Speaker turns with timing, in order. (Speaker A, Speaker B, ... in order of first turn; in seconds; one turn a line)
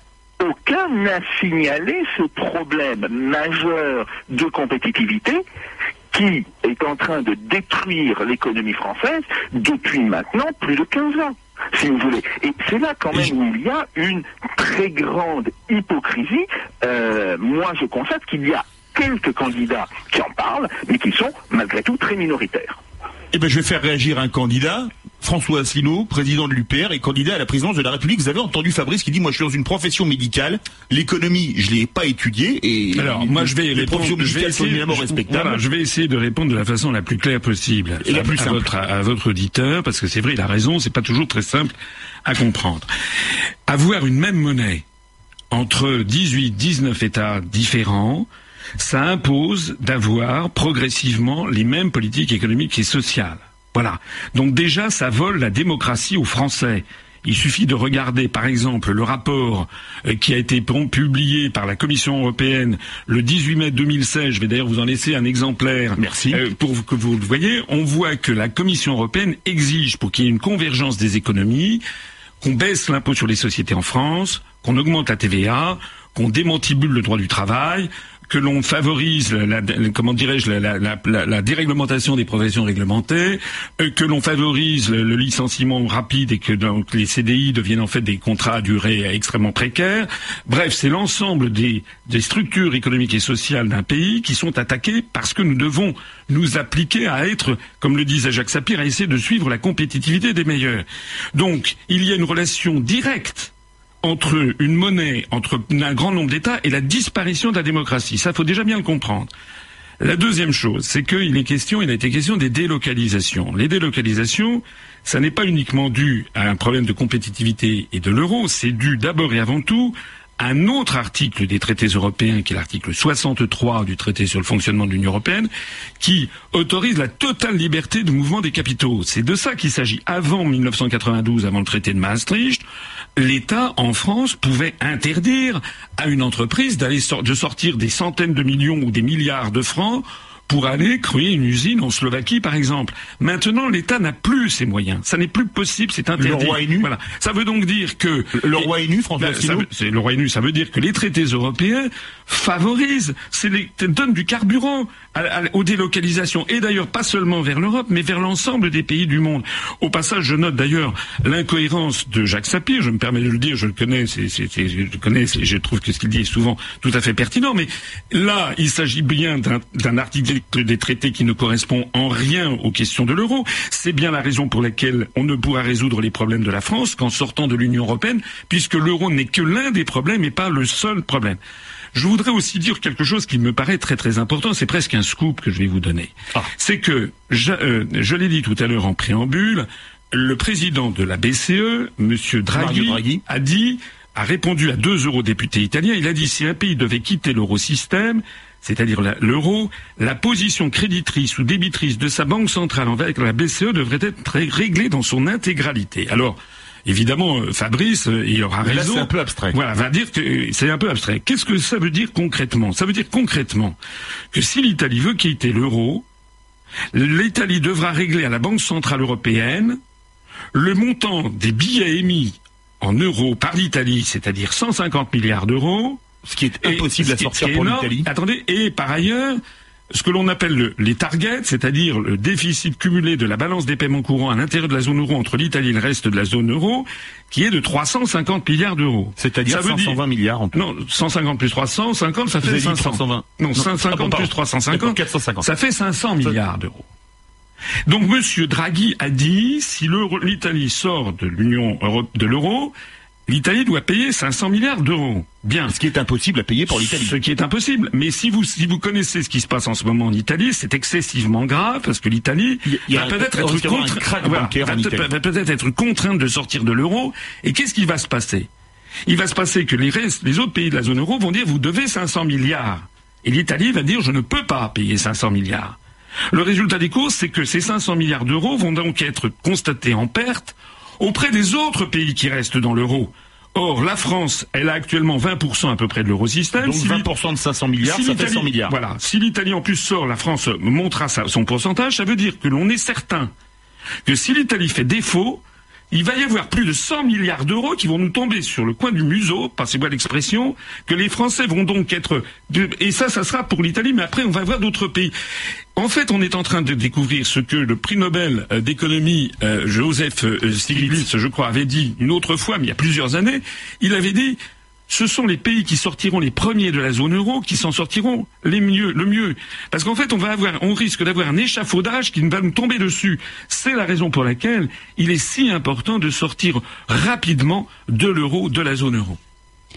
Speaker A: 0.4-5.4
Speaker A: 6.1-22.8
Speaker B: 23.3-35.6
Speaker C: 33.0-41.7
Speaker B: 38.0-38.7
Speaker C: 42.2-42.9
Speaker C: 43.7-44.8
Speaker C: 45.5-48.3
Speaker C: 48.8-71.8
Speaker B: 66.0-66.4
Speaker C: 72.4-103.5
Speaker C: 104.0-109.3
Speaker C: 110.0-125.5
Speaker C: 126.0-132.6
Speaker C: 133.2-181.4
Speaker B: 146.2-146.9
Speaker B: 148.3-149.7
Speaker C: 181.9-213.8
Speaker B: 192.5-193.2
Speaker B: 208.6-209.6
Speaker C: 214.3-216.0
Speaker C: 216.9-219.8
Speaker C: 220.5-226.0
Speaker B: 226.2-228.1
Speaker C: 226.6-229.4
Speaker C: 229.9-240.0
Speaker B: 239.2-240.6
Speaker C: 240.5-246.8
Speaker B: 242.4-245.5
Speaker C: 247.9-252.7
Speaker C: 253.3-255.8
Speaker B: 255.7-257.1
Speaker C: 256.7-268.5
Speaker B: 262.6-265.1
Speaker C: 269.1-275.8
Speaker C: 276.3-287.1
Speaker B: 286.6-288.7
Speaker C: 287.8-293.3
Speaker C: 294.0-305.1
Speaker C: 305.8-314.4
Speaker B: 310.7-311.1
Speaker C: 314.9-329.2